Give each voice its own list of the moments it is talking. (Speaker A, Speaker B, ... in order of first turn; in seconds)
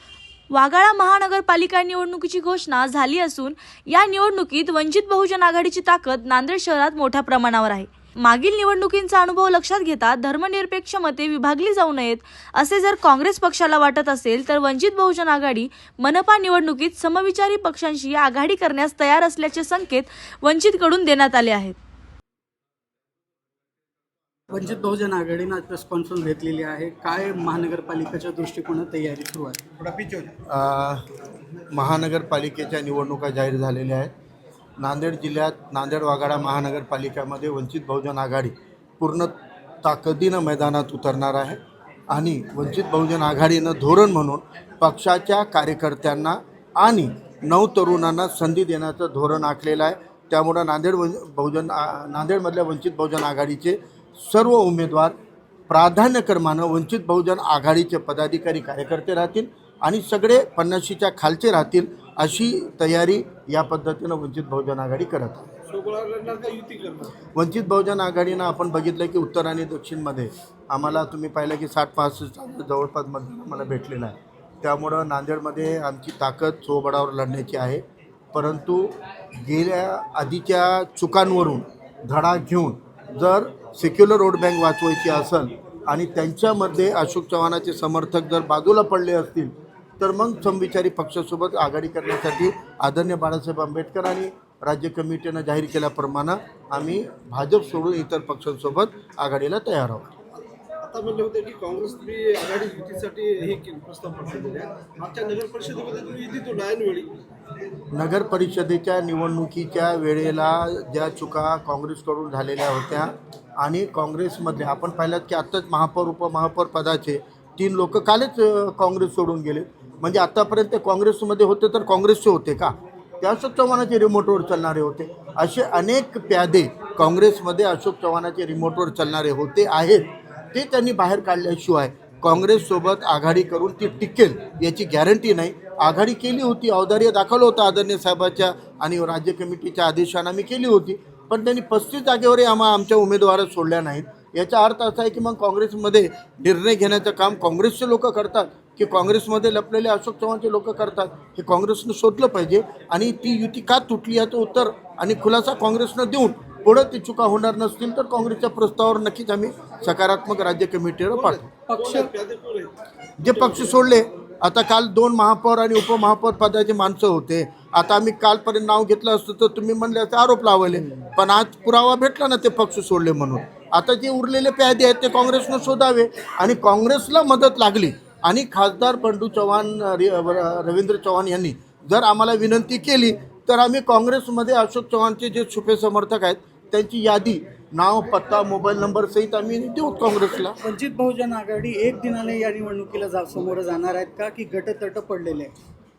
Speaker A: 0.5-21.8
Speaker B: 24.5-29.6, 161.7-162.1, 190.6-195.5
Speaker C: 30.3-31.0, 31.7-34.1, 34.8-41.6, 42.1-55.2, 55.7-65.5, 67.3-100.1, 107.9-161.5, 163.2-190.6
Speaker D: 65.7-67.2, 100.8-107.2, 161.1-162.7, 163.3-163.6